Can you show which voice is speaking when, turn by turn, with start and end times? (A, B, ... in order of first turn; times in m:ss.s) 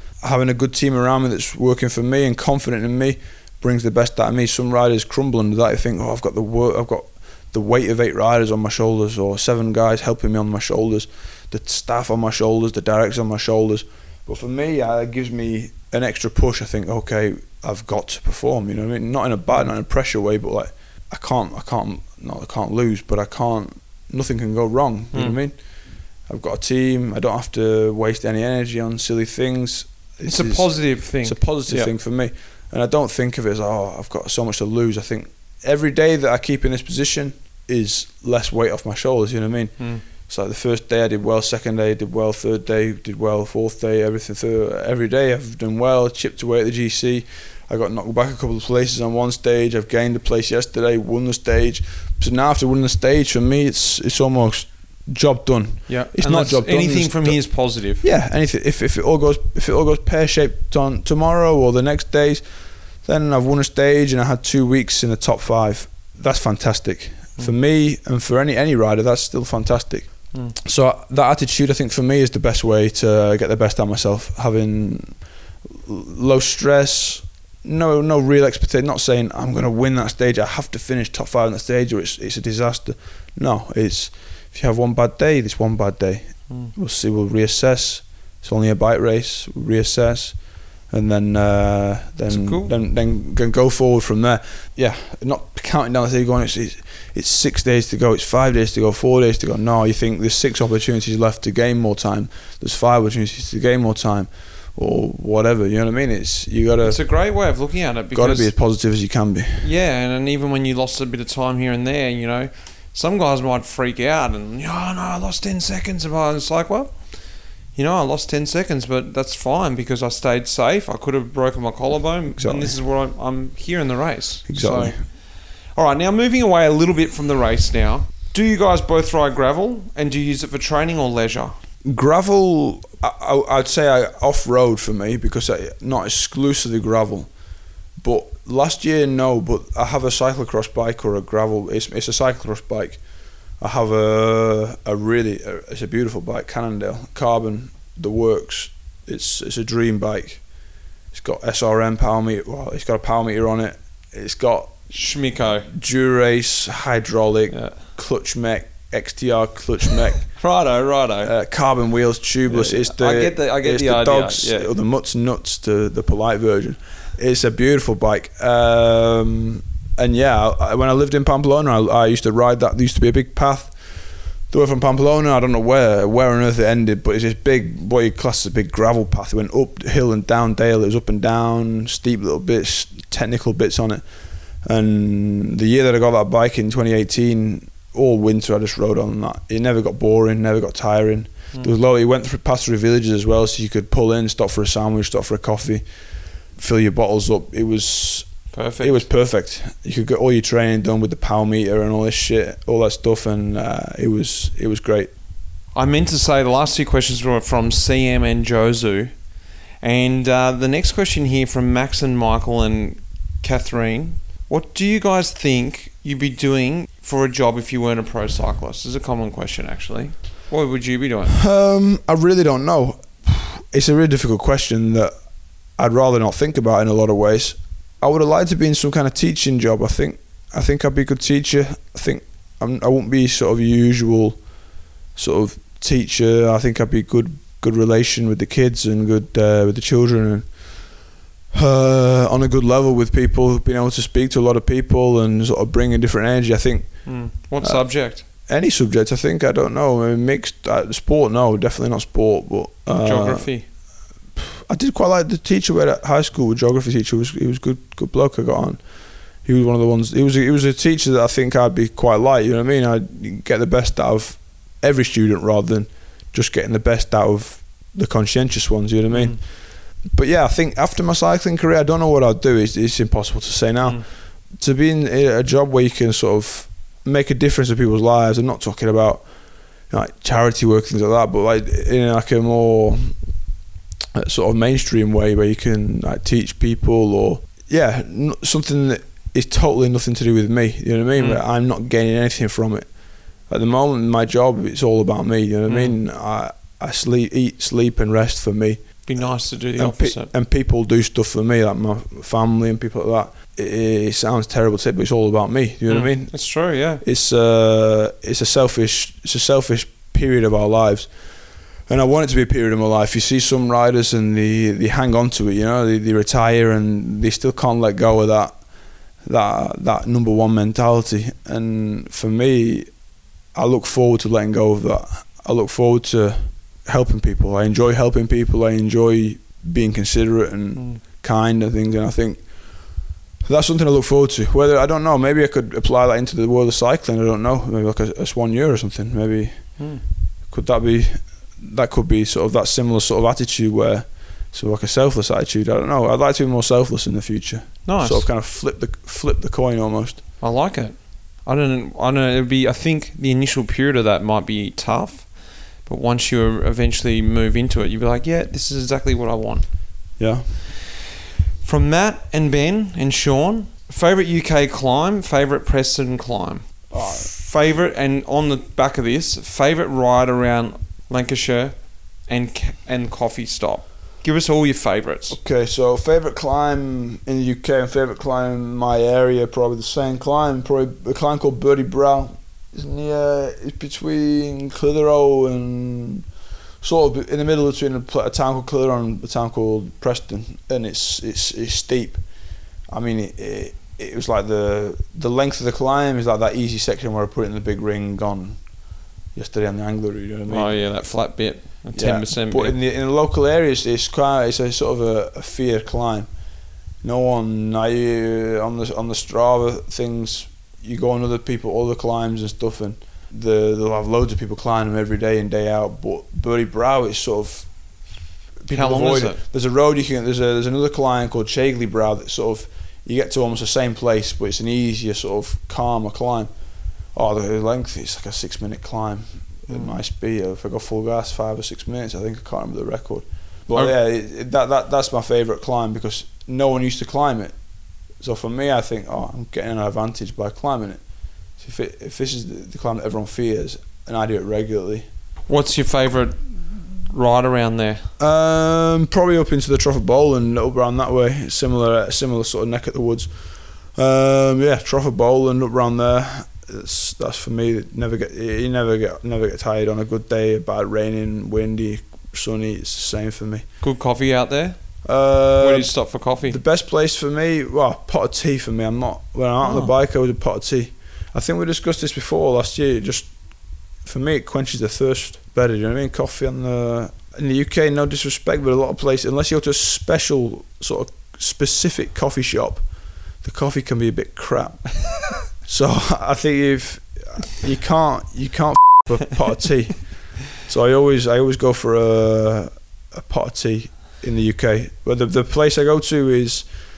0:00.2-1:47.0 A
0:25.1-0:25.4 B
0:30.3-0:31.9 B
0:39.8-0:40.0 B
0:55.9-0:58.0 B
1:32.3-1:32.8 B
1:46.8-1:48.5 B
1:48.1-1:49.7 A
1:49.6-2:11.5 B
2:02.4-2:02.8 A
2:04.5-2:05.0 A
2:11.8-2:17.3 A
2:18.0-2:23.0 A
2:23.6-2:30.5 A
2:31.1-2:35.0 A
2:34.9-2:35.7 B
2:35.6-2:40.4 A
2:37.5-2:37.8 B
2:40.3-2:41.3 B
2:41.2-3:15.9 A
2:42.5-2:44.7 B
3:16.5-3:25.1 A
3:18.5-3:19.1 B
3:25.7-3:29.2 B
3:29.8-3:41.4 B
3:41.4-3:54.4 A
3:55.2-4:00.9 A
4:01.5-4:13.8 A
4:07.0-4:08.3 B
4:12.9-4:13.7 B
4:14.4-4:43.4 A
4:29.1-4:29.4 B
4:44.2-5:18.6 A
4:51.2-4:51.4 B
4:55.7-4:56.0 B
4:59.0-5:00.3 B
5:05.9-5:07.0 B
5:19.2-5:23.0 A
5:23.5-5:50.2 A
5:30.8-5:31.0 B
5:39.8-5:40.0 B
5:47.8-5:48.3 B
5:50.4-6:00.2 B
6:00.2-6:00.5 A
6:01.6-6:15.4 B
6:06.9-6:07.3 A
6:15.3-6:26.3 A
6:26.8-6:32.2 A
6:32.9-6:38.8 A
6:39.3-6:40.8 A
6:40.5-6:42.8 B
6:41.9-6:46.3 A
6:47.0-6:57.7 A
6:58.6-7:06.5 A
6:58.7-6:59.4 B
7:07.1-7:17.6 A
7:09.7-7:10.0 B
7:18.2-7:21.0 A
7:21.6-7:25.0 A
7:25.5-7:26.5 B
7:27.0-7:28.1 B
7:28.2-7:43.7 A
7:43.8-7:45.0 B
7:45.0-7:53.4 A
7:45.6-7:46.6 B
7:49.6-7:49.9 B
7:54.0-8:02.9 A
8:03.4-8:16.7 A